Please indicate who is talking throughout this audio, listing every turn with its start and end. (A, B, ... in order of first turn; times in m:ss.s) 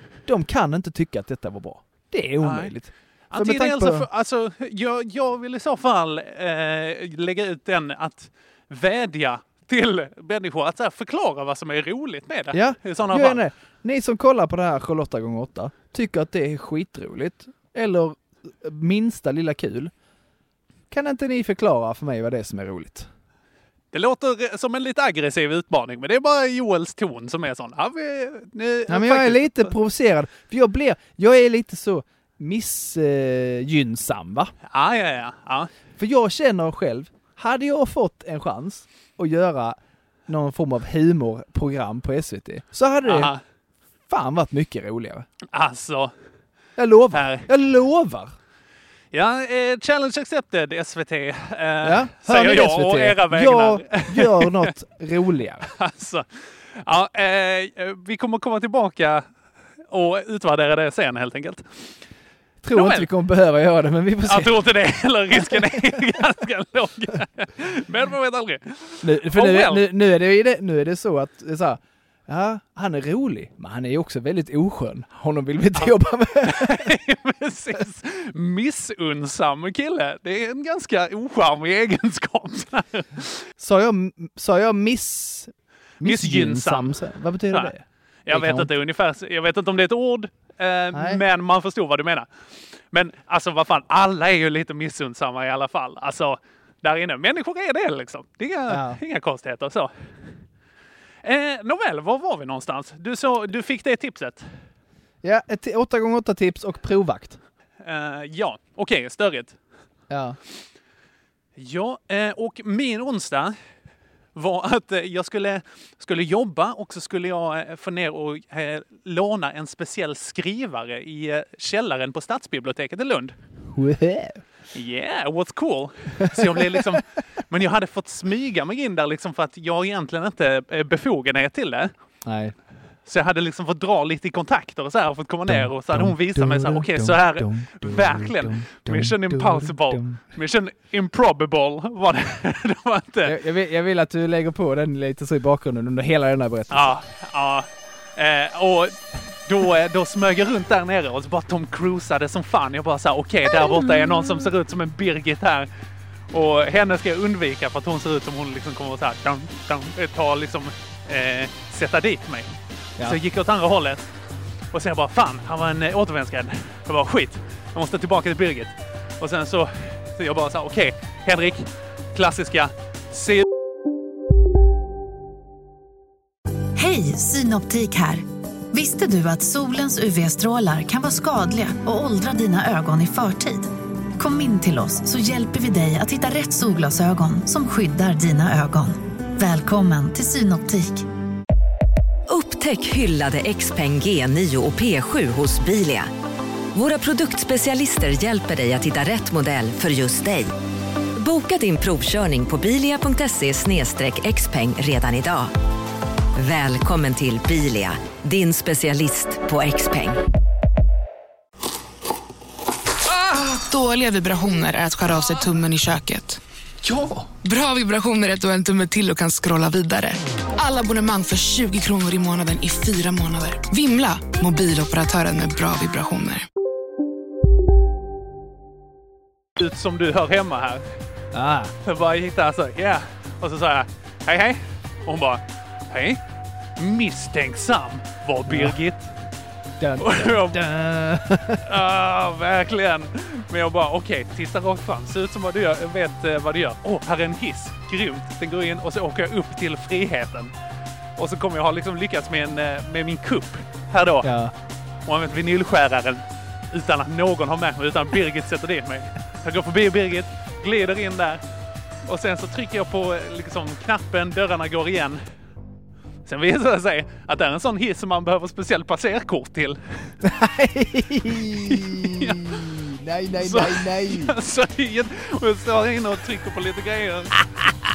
0:00.3-0:04.1 A
0:02.4-0:02.7 B
0:03.3-0:13.4 B
0:12.5-0:19.9 A
0:20.9-0:23.1 A
0:23.9-0:29.7 B
0:28.9-0:34.5 A
0:34.7-0:35.7 B
0:36.0-0:43.3 A
0:43.0-0:43.4 B
0:44.1-0:45.2 A
0:45.5-0:46.1 B
0:46.8-0:48.3 A
0:47.1-0:47.5 B
0:49.1-0:54.7 B
0:51.8-0:55.7 A
0:55.7-0:59.2 B
0:59.9-1:01.6 B
1:02.6-1:04.6 A
1:02.7-1:03.1 B
1:04.2-1:09.9 B
1:05.3-1:06.0 A
1:09.0-1:16.9 A
1:15.8-1:23.4 B
1:23.6-1:28.7 A
1:26.0-1:27.7 B
1:28.2-1:32.3 B
1:30.9-1:31.2 A
1:32.9-1:39.9 B
1:38.7-1:39.0 A
1:41.2-1:44.4 B
1:45.2-1:47.4 A
1:47.8-1:49.6 B
1:50.1-1:50.4 A
1:51.6-1:53.5 B
1:54.3-2:03.3 B
2:03.7-2:04.4 A
2:04.7-2:11.9 B
2:06.2-2:07.0 A
2:12.2-2:12.5 A
2:13.0-2:23.4 B
2:15.5-2:20.2 A
2:23.2-2:26.9 A
2:26.7-2:35.7 B
2:33.5-2:34.4 A
2:36.3-2:42.5 B
2:43.0-2:44.1 B
2:44.7-2:53.4 B
2:56.8-3:11.0 C
3:12.3-3:16.1 D
3:16.7-3:20.5 D
3:21.2-3:25.5 D
3:26.4-3:30.2 D
3:33.2-3:36.4 E
3:37.2-3:46.4 E
3:49.6-3:50.9 B
3:51.3-3:51.7 A
3:51.8-3:56.2 B
3:56.8-3:59.1 B
3:58.5-3:58.8 A
3:59.8-4:01.6 A
4:00.0-4:00.6 B
4:01.6-4:10.5 B
4:11.2-4:14.3 B
4:14.2-4:14.5 A
4:15.0-4:21.4 B
4:22.0-4:25.2 B
4:26.2-4:30.1 B
4:30.2-4:34.3 A
4:31.6-4:32.6 B
4:33.4-4:37.4 B